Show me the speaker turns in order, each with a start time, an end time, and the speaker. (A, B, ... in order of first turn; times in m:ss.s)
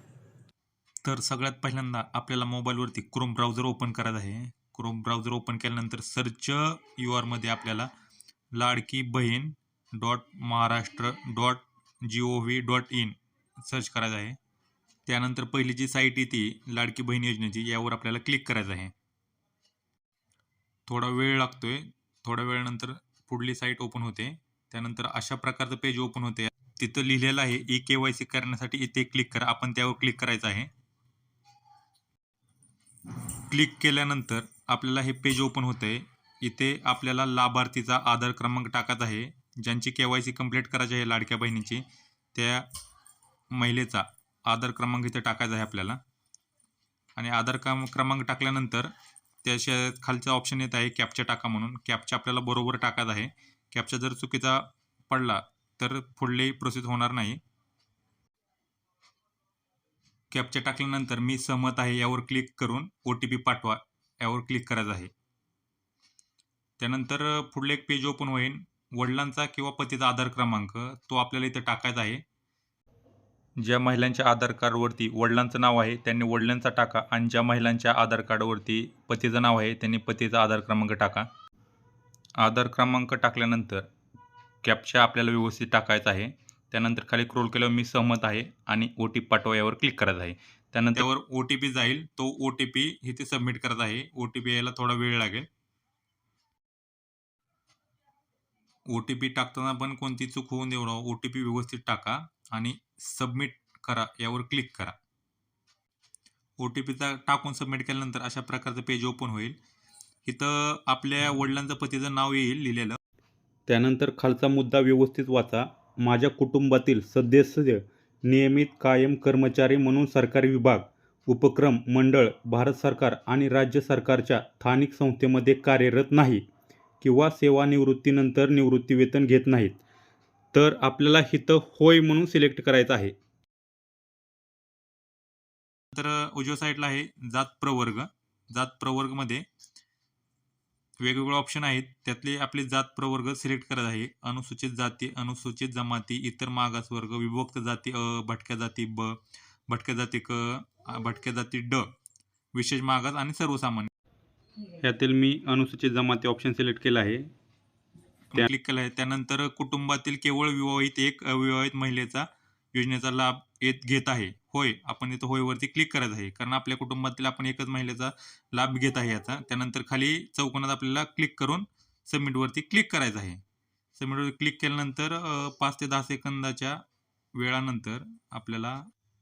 0:01.0-0:07.9 A
0:08.5-0:14.4 A
0:15.1-0:18.9 A
0:20.9-0:30.7 A
0:33.5-0:42.7 A
0:43.6-0:46.0 A
0:47.2-0:48.9 A
0:49.4-0:57.4 A
1:00.3-1:05.1 A
1:06.8-1:12.2 A
1:13.6-1:21.3 A
1:22.4-1:23.8 A
1:24.7-1:30.4 A
1:27.1-1:28.0 B
1:29.2-1:29.8 B
1:30.7-1:31.0 B
1:30.9-1:35.5 A
1:38.9-1:45.0 A
1:46.6-1:49.6 A
1:50.2-1:53.0 A
1:53.7-2:06.4 B
2:07.0-2:09.8 B
2:10.5-2:13.1 B
2:15.9-2:19.4 A
2:21.0-2:29.2 A
2:29.7-2:31.9 A
2:32.6-2:33.9 A
2:34.8-2:37.3 B
2:38.3-2:53.4 A
2:54.0-2:56.8 A
2:57.4-2:58.8 A